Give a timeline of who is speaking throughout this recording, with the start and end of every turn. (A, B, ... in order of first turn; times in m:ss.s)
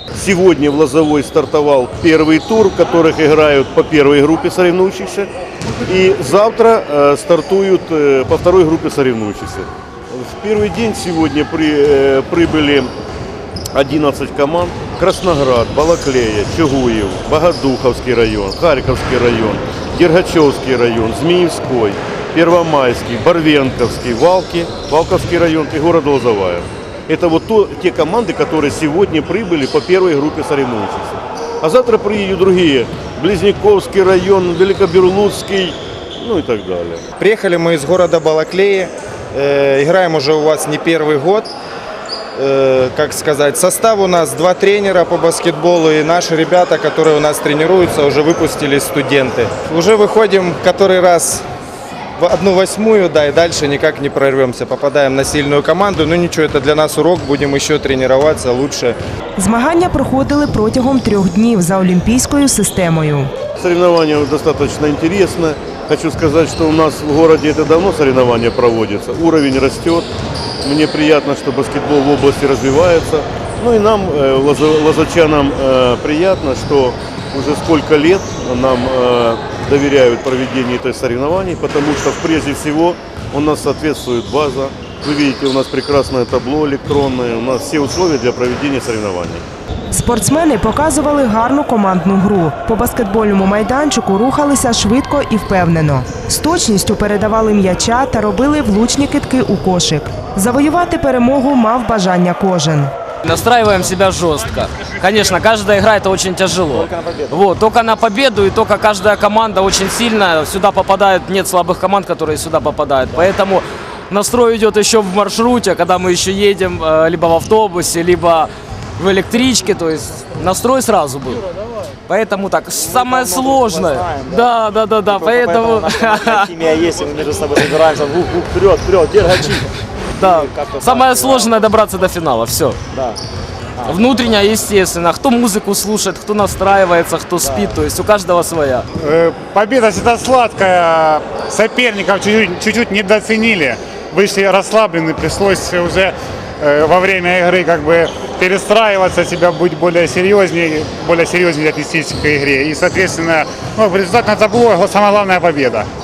0:00.1-0:05.3 A
0:05.8-0:12.9 A
0:13.7-0:37.0 A
0:37.2-0:41.5 B
0:42.4-0:51.4 B
0:52.2-0:59.0 B
0:59.4-1:03.3 C
1:03.6-1:10.1 A
1:10.6-1:29.4 A
1:29.9-1:42.9 C
1:43.2-2:01.5 D
2:02.1-2:07.7 D
2:07.1-2:09.3 E
2:10.2-2:12.8 D
2:13.8-2:18.9 D
2:19.0-2:35.9 F